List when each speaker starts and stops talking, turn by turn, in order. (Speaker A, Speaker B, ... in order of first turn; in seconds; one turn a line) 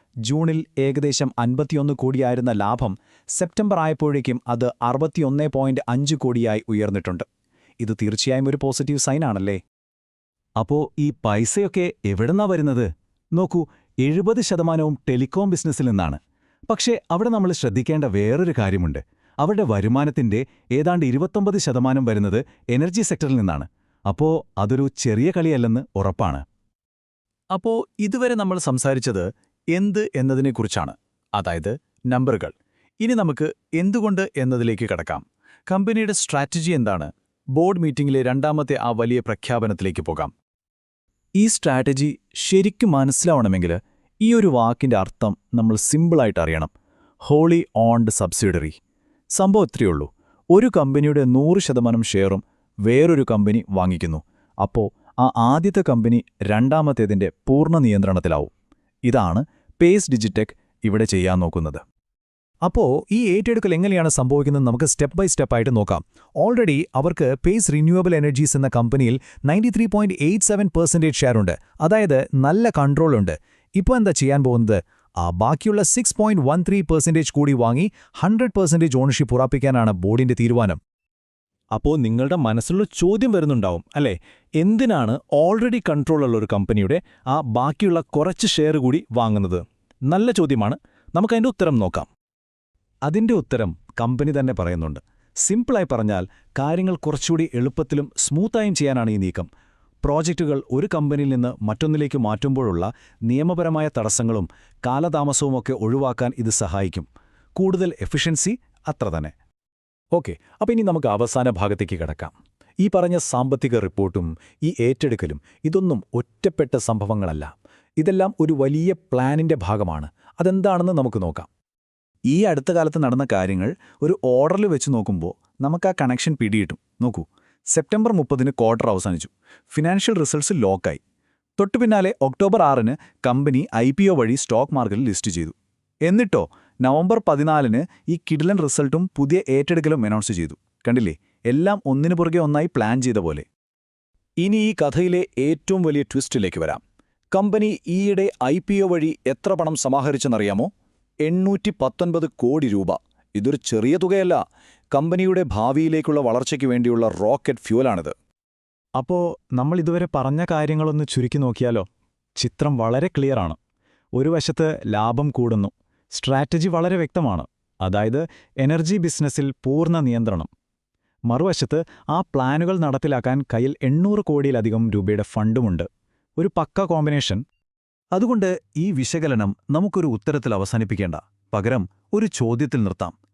Speaker A: 0.2-7.2
Speaker A: 7.8-9.6
Speaker A: 10.6-26.4
Speaker A: 27.5-40.3
Speaker A: 41.4-46.7
Speaker A: 47.2-48.8
Speaker A: 49.3-58.5
Speaker A: 59.0-61.8
Speaker A: 62.6-80.8
Speaker A: 81.7-92.1
Speaker A: 93.0-99.5
Speaker A: 100.0-109.3
Speaker A: 110.1-121.5
Speaker A: 122.3-131.0
Speaker A: 131.6-135.6
Speaker A: 136.1-143.5
Speaker A: 144.4-146.8
Speaker A: 147.3-150.7
Speaker A: 151.2-158.1
Speaker A: 159.0-163.6
Speaker A: 164.2-170.5
Speaker A: 171.3-177.4
Speaker A: 178.1-183.1